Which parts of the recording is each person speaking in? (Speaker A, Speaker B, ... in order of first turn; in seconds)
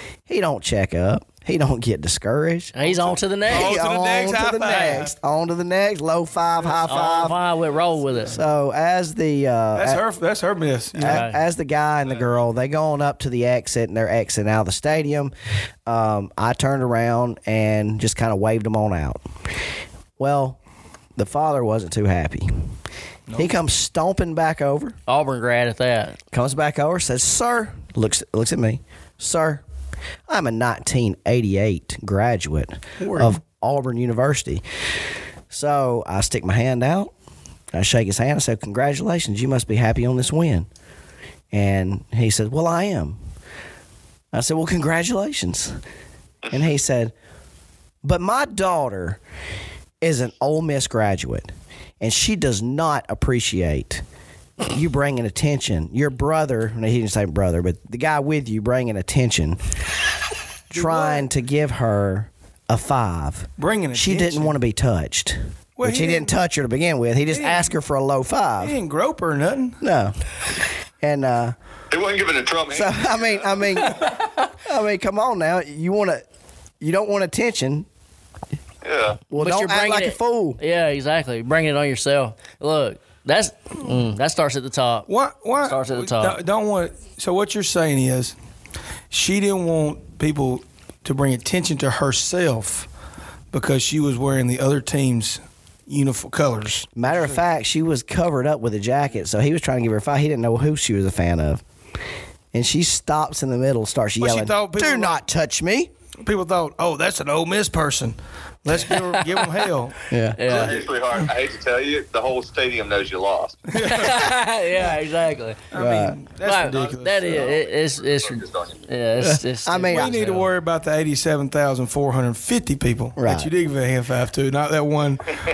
Speaker A: 0.3-2.8, 3.5-7.4, 8.3-10.0, 10.9-15.3, 15.8-19.2, 20.2-20.6, 21.1-22.7, 23.4-25.0, 26.3-29.6, 30.3-34.6, 35.5-37.1, 37.7-40.7, 41.5-43.2, 44.3-45.8, 46.5-47.1, 48.0-49.2, 50.0-51.5, 52.0-54.0, 54.6-59.6, 60.7-68.8, 69.8-70.2, 71.0-71.5, 72.7-76.2, 76.8-77.9, 79.3-80.6, 97.0-101.6, 102.5-105.9, 110.1-110.4, 115.7-116.2, 119.2-120.1, 123.2-123.5
Speaker B: 2.7-3.8, 6.8-8.3, 11.0-11.4, 25.1-26.2, 79.3-85.1, 85.6-86.4, 108.9-109.2, 110.3-110.8, 113.7-115.7, 116.4-120.5
Speaker C: 2.8-5.1, 9.7-11.2, 23.3-23.5, 33.0-33.4, 60.7-61.3, 63.6-64.5, 65.8-66.3, 67.3-67.7, 68.6-69.8, 85.1-88.3, 89.1-92.9, 93.5-97.4, 104.2-105.2, 106.2-110.0, 113.7-114.3, 115.7-117.5, 119.9-125.4
Speaker D: 71.9-73.7, 78.8-79.2, 110.4-113.6, 117.3-118.8